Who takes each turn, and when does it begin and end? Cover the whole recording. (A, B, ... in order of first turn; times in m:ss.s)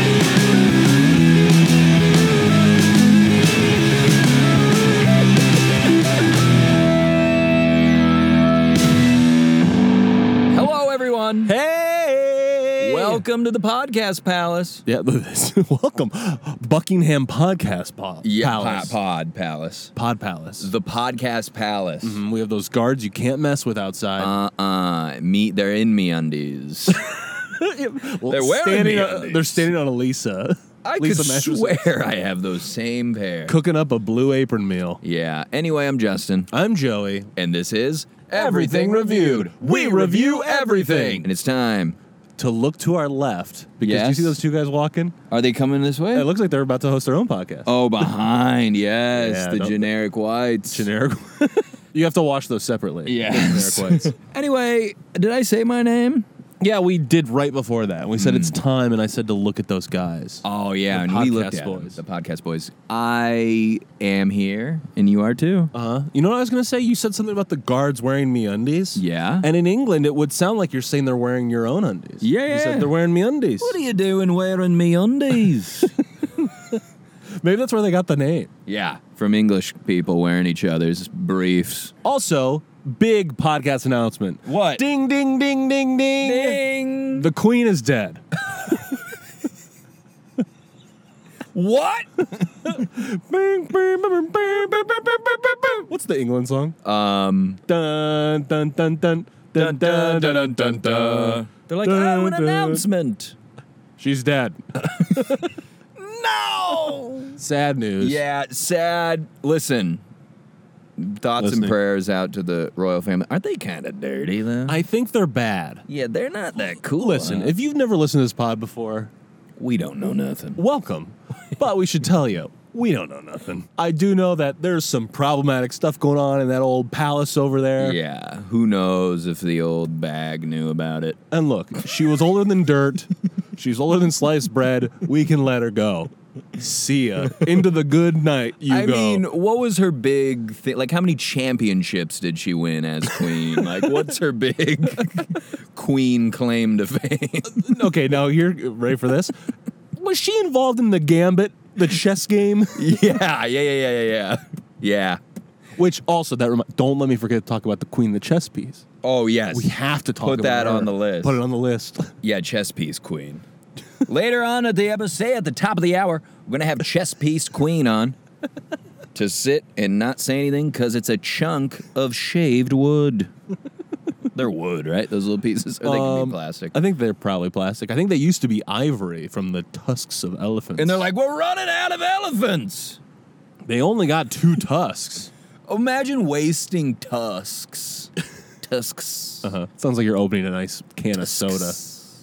0:10.5-0:11.5 A
0:11.4-0:13.2 B
0:12.8-0:14.8 A
0:14.8-0:19.0 B
0:18.2-0:19.9 A
0:20.0-0:20.7 B
0:20.6-0:22.2 A
0:22.0-0:24.4 B
0:24.2-0:27.3 A
0:27.4-0:31.8 B
0:28.2-0:29.7 A
0:30.8-0:33.6 A
0:33.5-0:35.0 B
0:35.0-0:36.5 A
0:36.5-0:37.3 B
0:37.4-0:42.0 A
0:38.3-0:41.3 B
0:42.4-0:45.2 B
0:43.8-0:44.4 A
0:45.3-0:46.3 A
0:46.1-0:47.7 B
0:47.6-0:50.9 A
0:49.1-0:49.9 B
0:50.7-0:54.1 B
0:53.0-0:56.3 A
0:56.6-1:02.0 B
0:58.2-0:58.6 A
1:00.4-1:05.7 A
1:05.7-1:13.8 B
1:09.0-1:09.5 A
1:12.2-1:12.9 A
1:13.6-1:16.0 A
1:16.4-1:16.8 B
1:17.4-1:18.5 B
1:18.7-1:21.9 A
1:22.0-1:26.6 B
1:24.5-1:24.8 A
1:26.2-1:27.3 A
1:27.1-1:28.2 B
1:31.5-1:32.3 A
1:32.6-1:36.8 B
1:36.8-1:37.6 A
1:37.7-1:42.8 B
1:39.5-1:43.4 A
1:44.0-1:45.5 B
1:46.0-1:47.4 A
1:47.4-1:48.2 B
1:48.0-1:50.0 A
1:51.0-1:54.8 A
1:51.4-1:51.8 B
1:54.7-1:55.8 B
1:55.9-1:57.5 A
1:57.0-1:59.1 B
1:59.6-2:00.6 A
2:00.6-2:08.0 B
2:07.8-2:11.2 A
2:11.3-2:19.2 B
2:18.7-2:27.8 A
2:27.6-2:29.4 B
2:29.9-2:32.8 B
2:32.8-2:35.2 A
2:35.8-2:38.8 B
2:39.0-2:41.4 A
2:39.5-2:42.1 B
2:42.2-2:43.4 A
2:44.0-2:48.2 A
2:49.1-2:53.3 A
2:54.3-2:56.8 A
2:55.8-3:01.0 B
3:00.8-3:03.0 A
3:03.7-3:05.3 B
3:05.7-3:09.5 A
3:09.4-3:11.8 B
3:11.2-3:12.0 A